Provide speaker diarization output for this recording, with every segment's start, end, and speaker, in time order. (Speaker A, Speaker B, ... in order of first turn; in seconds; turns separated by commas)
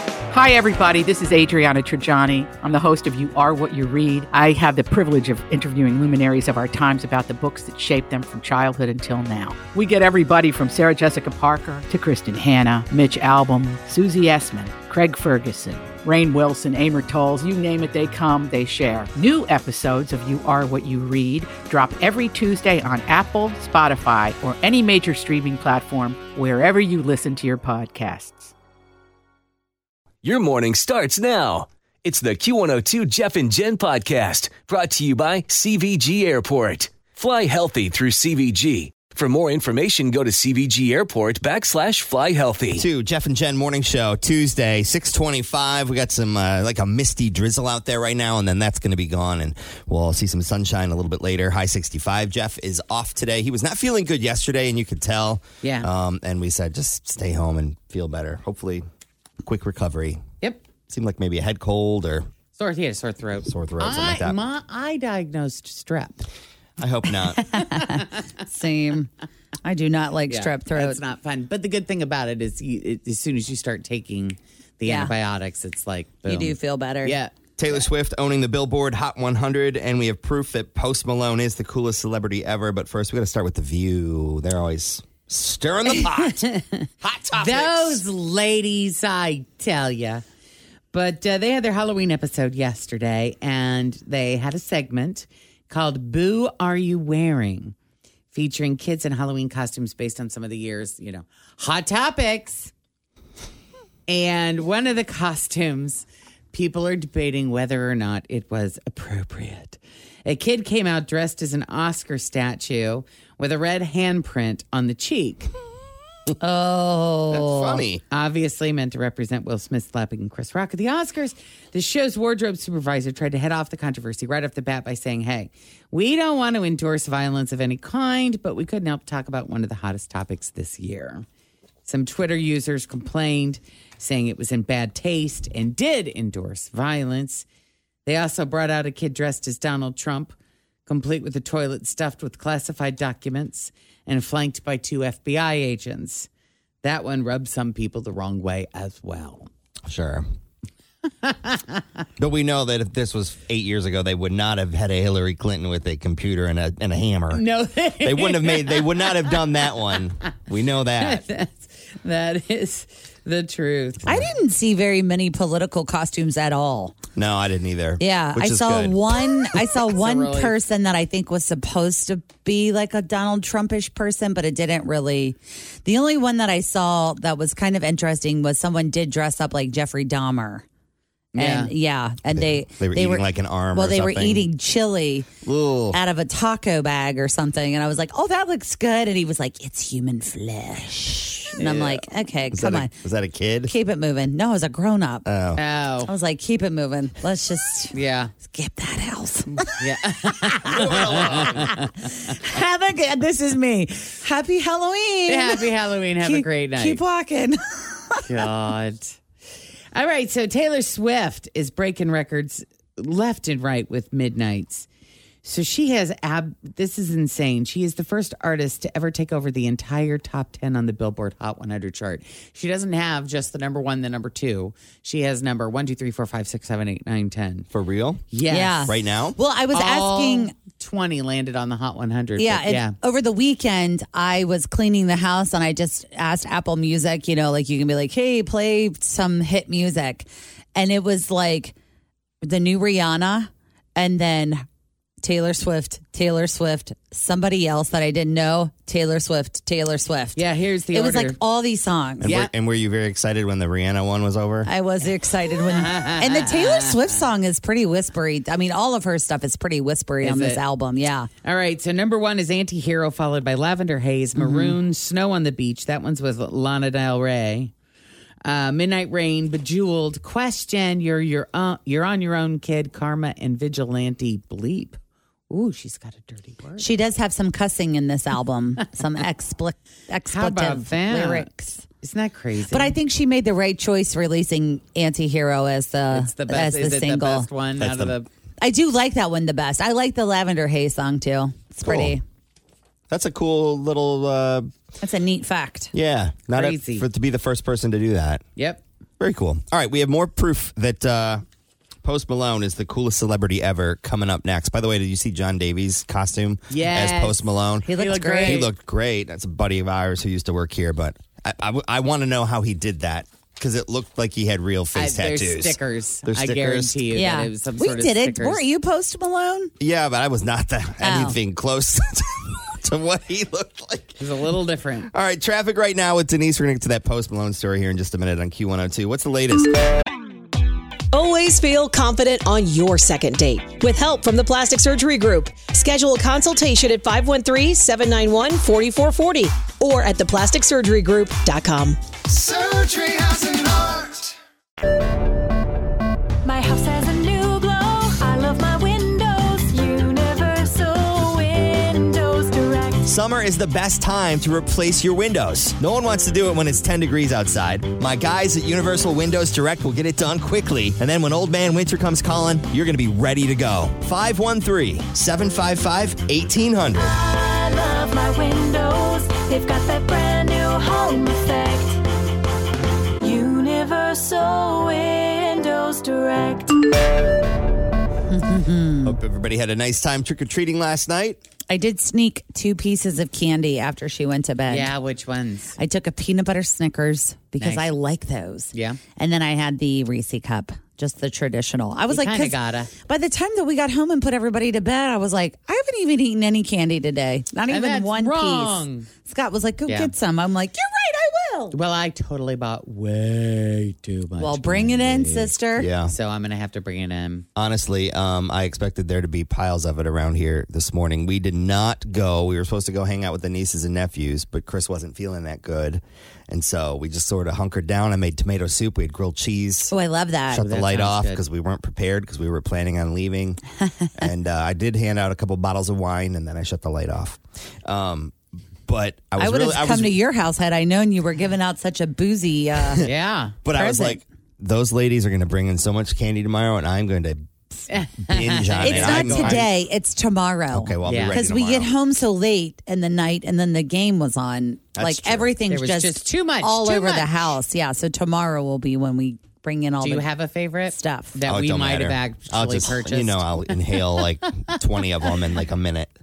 Speaker A: 0.3-28.5, Speaker B: 30.2-42.9, Speaker C: 42.7-58.9, Speaker D: 55.6-55.9, Speaker C: 59.4-60.2, Speaker C: 60.9-62.3, Speaker D: 62.5-66.3, Speaker C: 63.5-64.4, Speaker C: 66.8-67.4, Speaker E: 67.7-69.1, Speaker E: 69.6-71.0, Speaker D: 70.3-77.3, Speaker E: 74.8-75.1, Speaker E: 76.2-77.2, Speaker C: 77.6-86.4, Speaker D: 86.0-86.6, Speaker C: 87.0-88.0, Speaker D: 87.4-90.2, Speaker D: 90.9-97.7, Speaker D: 98.3-102.7, Speaker D: 104.1-115.5, Speaker E: 116.4-117.8, Speaker C: 117.3-118.0, Speaker D: 118.1-131.2, Speaker D: 131.8-137.5, Speaker D: 138.1-140.3, Speaker D: 140.9-146.3, Speaker D: 146.8-149.5, Speaker C: 149.9-150.3, Speaker D: 151.2-151.8, Speaker C: 152.2-157.4, Speaker D: 157.3-159.4, Speaker C: 158.0-161.2, Speaker D: 161.0-164.2, Speaker E: 164.1-166.9, Speaker C: 167.2-169.6, Speaker E: 168.0-180.7, Speaker D: 169.9-170.6, Speaker D: 181.3-181.7, Speaker E: 181.4-185.3, Speaker C: 182.3-184.5, Speaker C: 185.4-186.0, Speaker E: 185.9-192.9, Speaker D: 191.6-192.0, Speaker C: 192.5-193.7, Speaker E: 193.6-195.3, Speaker C: 195.2-195.6, Speaker D: 195.6-196.1, Speaker E: 196.1-199.7, Speaker D: 197.9-198.3, Speaker D: 199.8-201.7, Speaker E: 200.5-205.7, Speaker C: 200.7-201.6, Speaker D: 205.3-207.0, Speaker E: 206.2-208.2, Speaker D: 208.2-209.2, Speaker D: 209.9-214.9, Speaker D: 215.4-227.7, Speaker C: 227.7-228.2, Speaker D: 228.3-229.0, Speaker E: 228.5-230.5, Speaker C: 228.9-229.4, Speaker D: 229.7-233.0, Speaker E: 232.4-241.7, Speaker E: 242.4-244.7, Speaker E: 245.2-252.4, Speaker D: 250.3-251.4, Speaker C: 252.2-254.7, Speaker D: 252.2-252.5, Speaker E: 254.7-261.3, Speaker D: 255.5-256.9, Speaker D: 260.2-260.6, Speaker D: 261.4-267.7, Speaker E: 264.4-264.8, Speaker D: 268.4-275.0, Speaker D: 275.5-276.9, Speaker E: 276.8-281.8, Speaker D: 280.3-283.0, Speaker E: 282.7-287.5, Speaker D: 286.1-288.3, Speaker C: 287.8-288.1, Speaker E: 288.6-292.2, Speaker C: 291.9-292.2, Speaker C: 293.1-294.7, Speaker E: 295.0-295.9, Speaker C: 295.9-298.4, Speaker D: 296.5-297.1, Speaker D: 298.6-298.8, Speaker C: 299.2-301.4, Speaker C: 302.0-307.9, Speaker D: 306.7-308.7, Speaker E: 307.9-308.7, Speaker C: 308.4-317.0, Speaker D: 314.9-318.6, Speaker E: 317.1-319.7, Speaker C: 319.8-324.2, Speaker E: 321.0-321.4, Speaker D: 324.2-325.1, Speaker C: 325.1-329.7, Speaker F: 331.1-342.0, Speaker C: 342.6-343.1, Speaker G: 342.9-343.6, Speaker G: 346.4-353.0, Speaker C: 353.1-367.1, Speaker G: 367.1-372.0, Speaker G: 373.2-376.8, Speaker E: 378.3-379.2, Speaker C: 379.0-381.4, Speaker E: 381.7-384.9, Speaker D: 384.7-385.8, Speaker E: 385.8-401.8, Speaker D: 387.6-387.9, Speaker D: 388.7-389.0, Speaker D: 392.1-392.9, Speaker D: 397.7-399.1, Speaker D: 399.9-400.1, Speaker D: 401.7-405.5, Speaker E: 404.4-405.9, Speaker C: 405.8-406.1, Speaker D: 406.1-407.5, Speaker C: 407.6-419.9, Speaker E: 419.9-420.6, Speaker C: 420.5-423.6, Speaker D: 420.6-421.4, Speaker C: 424.2-428.4, Speaker C: 428.9-430.2, Speaker E: 429.4-433.1, Speaker D: 433.0-433.6, Speaker C: 433.6-439.7, Speaker E: 433.7-434.2, Speaker D: 437.9-439.7, Speaker E: 438.8-450.3, Speaker C: 440.7-441.9, Speaker D: 441.1-441.4, Speaker C: 444.9-445.5, Speaker D: 445.7-447.5, Speaker D: 450.0-453.9, Speaker E: 450.8-451.4, Speaker C: 451.5-456.1